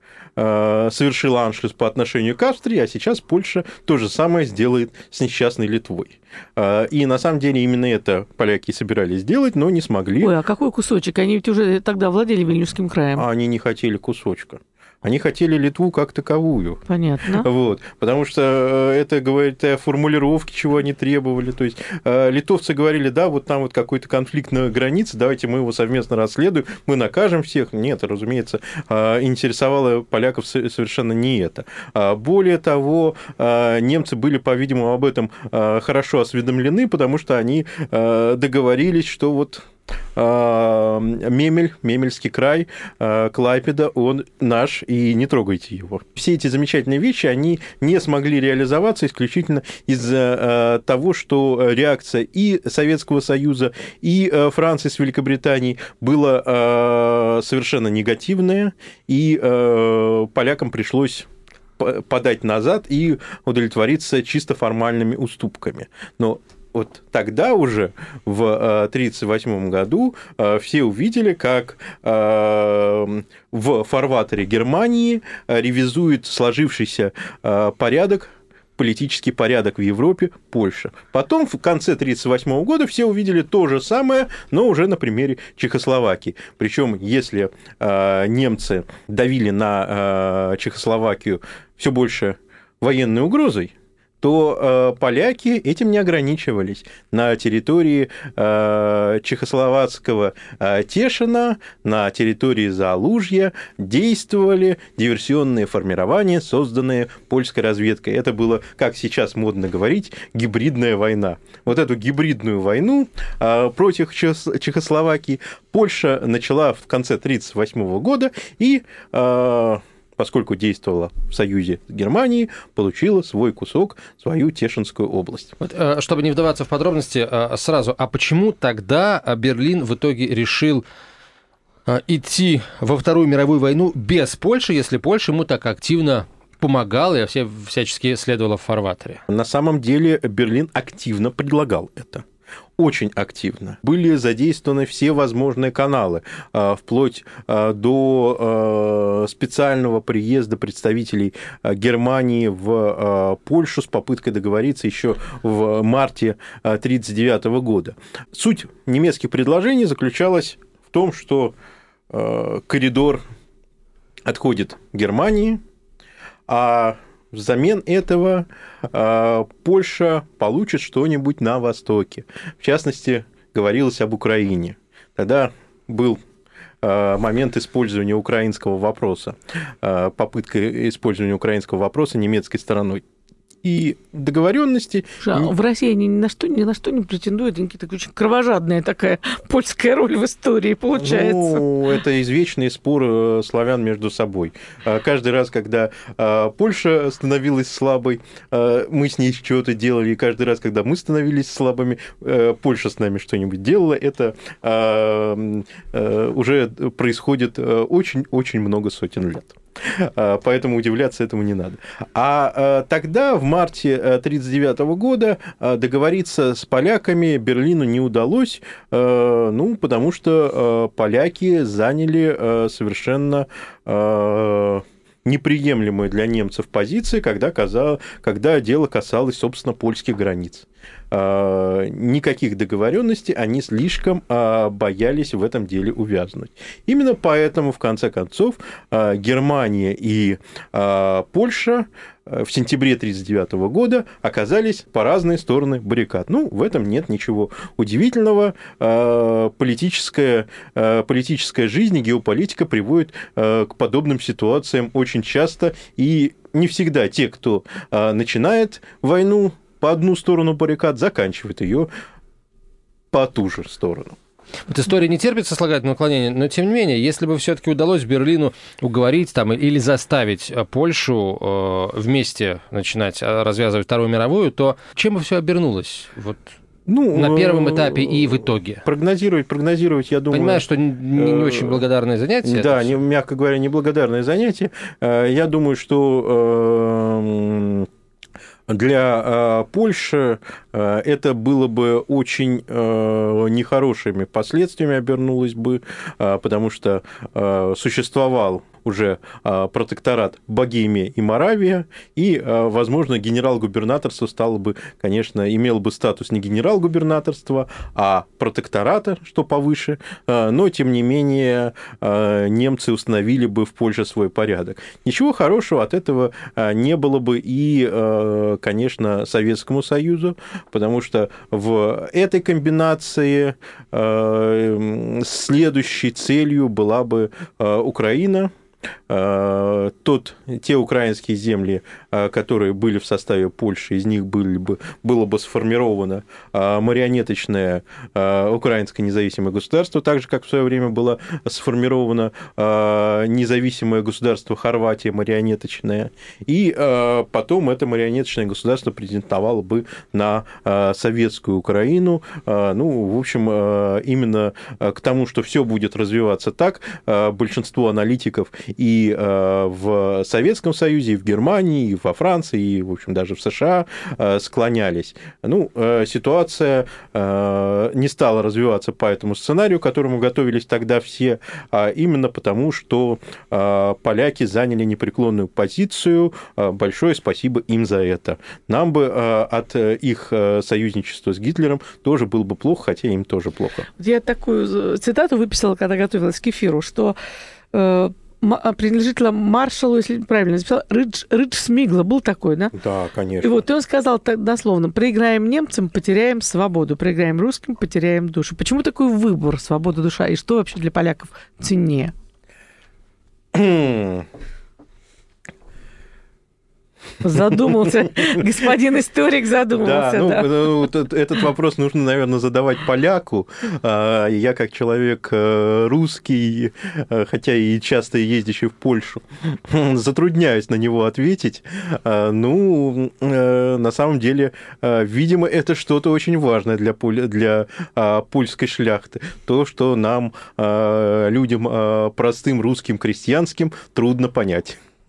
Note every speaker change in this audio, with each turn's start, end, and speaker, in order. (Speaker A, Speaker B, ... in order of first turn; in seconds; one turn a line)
Speaker A: 0.4-10.3
Speaker B: 10.2-13.2
Speaker A: 13.2-16.8
Speaker B: 16.9-17.5
Speaker A: 17.4-125.5
Speaker C: 125.6-130.8
Speaker C: 131.9-139.2
Speaker A: 139.3-142.2
Speaker A: 142.8-161.6
Speaker A: 162.1-163.2
Speaker A: 164.2-165.6
Speaker A: 166.5-176.2
Speaker A: 176.8-183.0
Speaker A: 183.6-185.5
Speaker B: 185.2-191.6
Speaker A: 191.0-261.9
Speaker A: 263.1-264.2
Speaker C: 264.7-276.5
Speaker A: 276.9-281.8
Speaker C: 277.1-278.9
Speaker C: 280.3-283.0
Speaker A: 282.4-287.9
Speaker A: 288.7-328.5
Speaker A: 329.1-383.9
Speaker B: 384.0-387.2
Speaker B: 387.7-392.7
Speaker A: 392.7-393.6
Speaker B: 393.4-402.1
Speaker A: 403.5-404.3
Speaker B: 407.2-410.8
Speaker A: 409.8-434.8